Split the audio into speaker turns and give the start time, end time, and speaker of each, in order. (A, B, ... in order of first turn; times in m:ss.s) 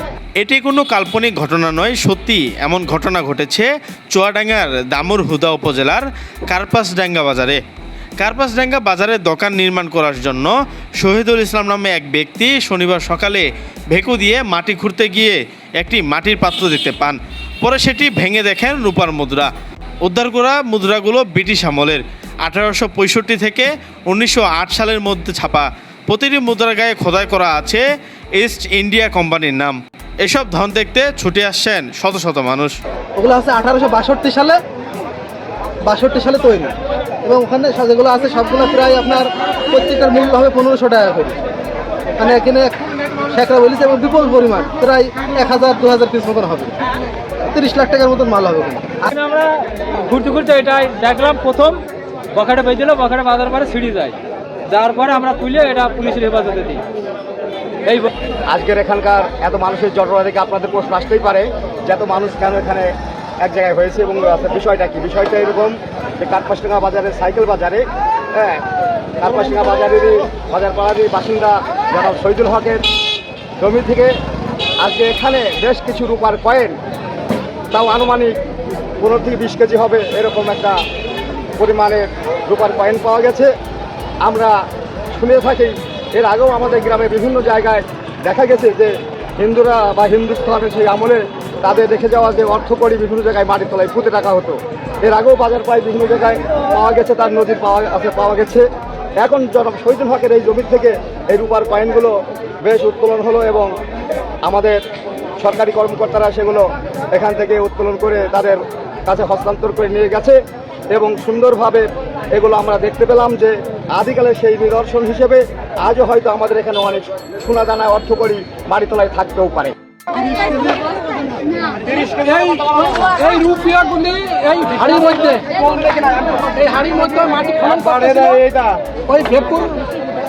0:00.4-0:07.6 A
0:08.2-0:19.5 A
0:20.0-0:27.8 A
0:28.4-0:32.7 A
0:33.2-0:34.6 B
0:35.8-0:41.4 B
0:42.2-0:42.8 B
0:43.3-0:46.8 B
0:47.5-0:49.1 B
0:49.1-0:51.8 C
0:52.3-0:54.2 C
0:54.7-0:56.8 C
0:57.8-0:58.1 C
0:58.5-1:08.6 D
1:09.2-1:12.8 D
1:13.6-1:14.1 D
1:14.8-1:16.8 D
1:17.7-1:18.3 D
1:19.0-1:20.8 D
1:21.6-1:23.5 D
1:24.2-1:24.5 D
1:25.1-1:38.7 D
1:39.2-1:43.7 D
1:44.4-1:44.8 D
1:45.4-1:50.4 D
1:50.9-1:59.7 D
2:02.4-2:08.6 E
2:03.0-2:03.5 C
2:04.9-2:05.4 B
2:06.6-2:07.0 B
2:09.1-2:09.7 B
2:09.3-2:09.8 E